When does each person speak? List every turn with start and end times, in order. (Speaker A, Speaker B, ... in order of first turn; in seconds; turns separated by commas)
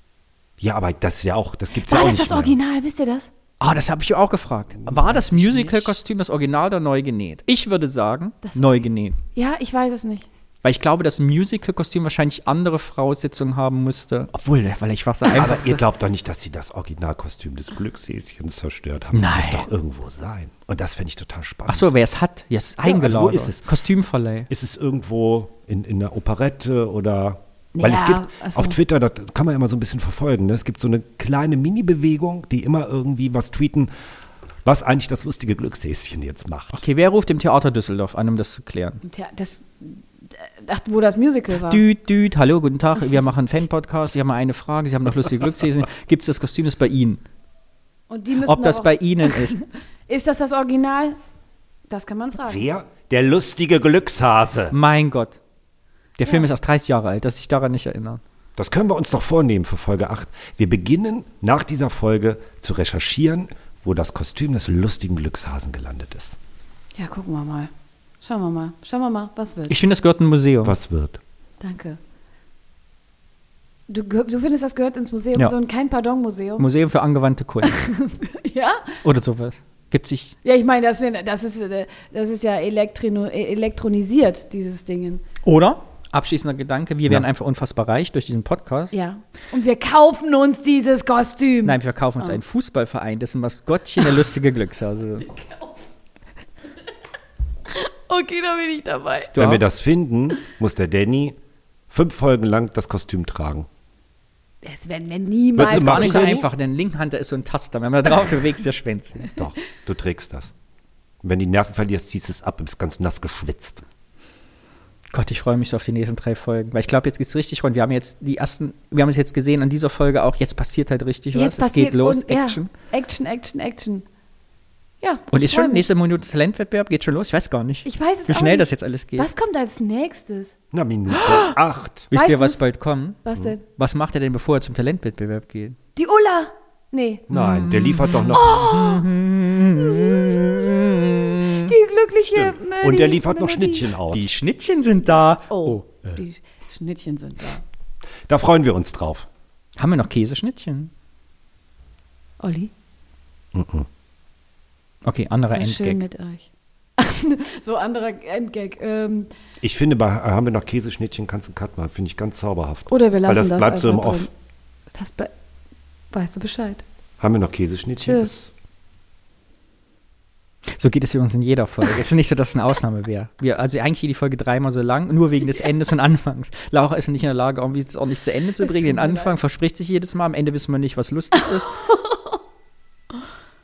Speaker A: 0.6-2.6, Speaker B: 1.8-3.3, Speaker C: 3.6-9.2, Speaker A: 4.8-5.9, Speaker B: 8.5-8.7, Speaker B: 9.3-10.3, Speaker C: 10.6-15.8, Speaker A: 15.4-21.9, Speaker C: 19.1-19.7, Speaker C: 21.7-24.5, Speaker A: 22.9-23.7, Speaker A: 24.5-33.9, Speaker B: 27.8-28.8, Speaker A: 34.6-36.8, Speaker C: 36.7-39.0, Speaker B: 39.0-41.8, Speaker C: 41.6-47.2, Speaker B: 48.1-51.2, Speaker C: 48.4-49.6, Speaker B: 51.9-52.6, Speaker A: 52.5-54.8, Speaker C: 54.7-55.4, Speaker C: 56.2-58.2, Speaker A: 58.6-66.4, Speaker B: 67.0-67.7, Speaker B: 68.2-69.8, Speaker C: 69.7-70.8, Speaker A: 70.6-71.2, Speaker B: 71.6-72.0, Speaker B: 73.9-76.7, Speaker C: 76.6-77.8, Speaker B: 77.6-79.0, Speaker C: 79.0-80.3, Speaker B: 80.5-85.2, Speaker C: 85.4-89.0, Speaker B: 88.9-92.4, Speaker C: 91.6-95.3, Speaker B: 95.2-95.9, Speaker B: 97.7-99.4, Speaker C: 99.4-99.6, Speaker A: 99.4-101.4, Speaker A: 101.9-103.7, Speaker B: 104.6-106.5, Speaker A: 105.6-106.5, Speaker C: 105.6-109.3, Speaker A: 109.3-110.5, Speaker A: 111.2-113.8, Speaker C: 115.1-122.7, Speaker B: 121.3-124.0, Speaker B: 125.0-125.9, Speaker C: 125.3-129.3, Speaker B: 127.8-130.6, Speaker A: 130.7-132.1, Speaker C: 132.1-135.8, Speaker B: 132.1-132.6, Speaker B: 133.2-133.6, Speaker B: 135.9-137.3, Speaker A: 137.3-138.5, Speaker C: 137.3-141.7, Speaker B: 138.3-139.1, Speaker B: 139.7-143.9, Speaker A: 142.3-144.3, Speaker C: 144.1-146.0, Speaker B: 145.5-147.6, Speaker A: 148.3-149.3, Speaker C: 149.8-150.9, Speaker B: 152.4-152.7, Speaker A: 153.5-153.9, Speaker C: 155.1-156.0, Speaker B: 155.5-159.3, Speaker A: 159.6-164.3, Speaker B: 162.9-164.3, Speaker B: 164.9-165.3, Speaker B: 166.1-166.8, Speaker A: 167.2-168.5, Speaker B: 168.1-168.3, Speaker C: 170.8-181.8, Speaker B: 178.6-179.4, Speaker B: 181.9-182.4